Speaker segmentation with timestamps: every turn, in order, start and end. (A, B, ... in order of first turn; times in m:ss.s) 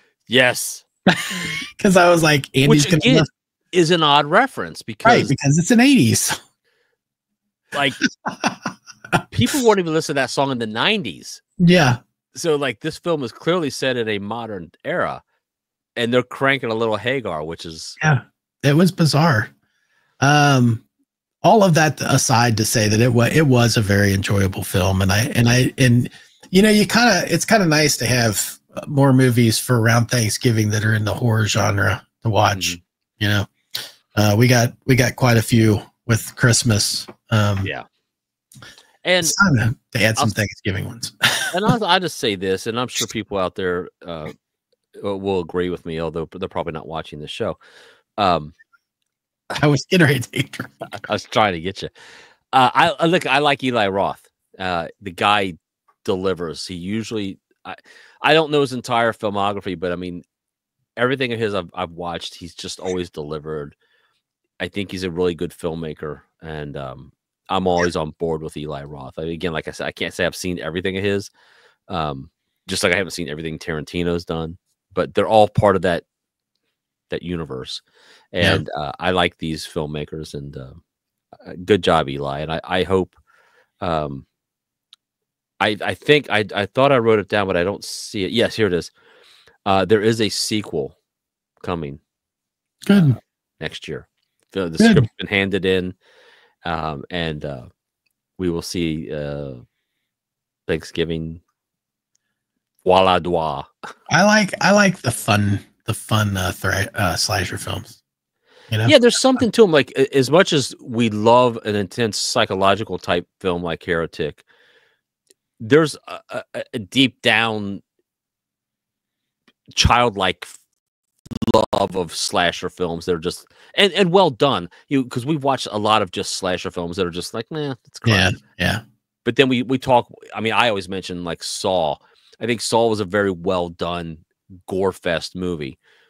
0:00.3-0:00.8 A
0:01.1-0:03.3 B
0:02.6-0:05.3 A
0:05.0-0:06.4 B
0:07.7-0:08.0 A
0:08.2-0:08.6 B
0:09.3-0:11.4 A
0:11.6-0:12.0 B
0:12.3-0:15.2 A
0:16.0-0:18.0 A
0:18.0-0:19.5 B
0:20.2-0:20.8 B
0:21.4-0:33.5 B
0:32.5-0:32.8 A
0:34.1-0:37.7 B
0:39.0-0:39.4 A
0:39.2-0:41.5 B
0:41.5-0:44.3 A
0:45.0-0:47.6 A
0:48.2-0:48.5 A
0:49.6-0:50.8 B
0:51.0-0:51.9 A
0:52.5-1:00.2 A
1:01.0-1:03.7 A
1:04.6-1:11.3 A
1:11.9-1:16.0 A
1:17.1-1:20.8 A
1:21.4-1:23.2 A
1:23.8-1:24.2 A
1:25.6-1:28.9 A
1:29.6-1:31.0 A
1:31.6-1:32.0 A
1:32.8-1:33.2 B
1:32.9-1:36.0 A
1:34.8-1:35.1 B
1:36.6-1:37.7 A
1:38.4-1:39.6 A
1:40.7-1:41.4 A
1:42.8-1:43.7 A
1:44.1-1:48.0 B
1:48.7-1:49.4 B
1:48.8-1:54.4 A
1:55.6-1:57.8 A
1:59.7-2:00.6 A
2:01.4-2:08.4 A
2:08.0-2:08.8 B
2:09.2-2:15.8 A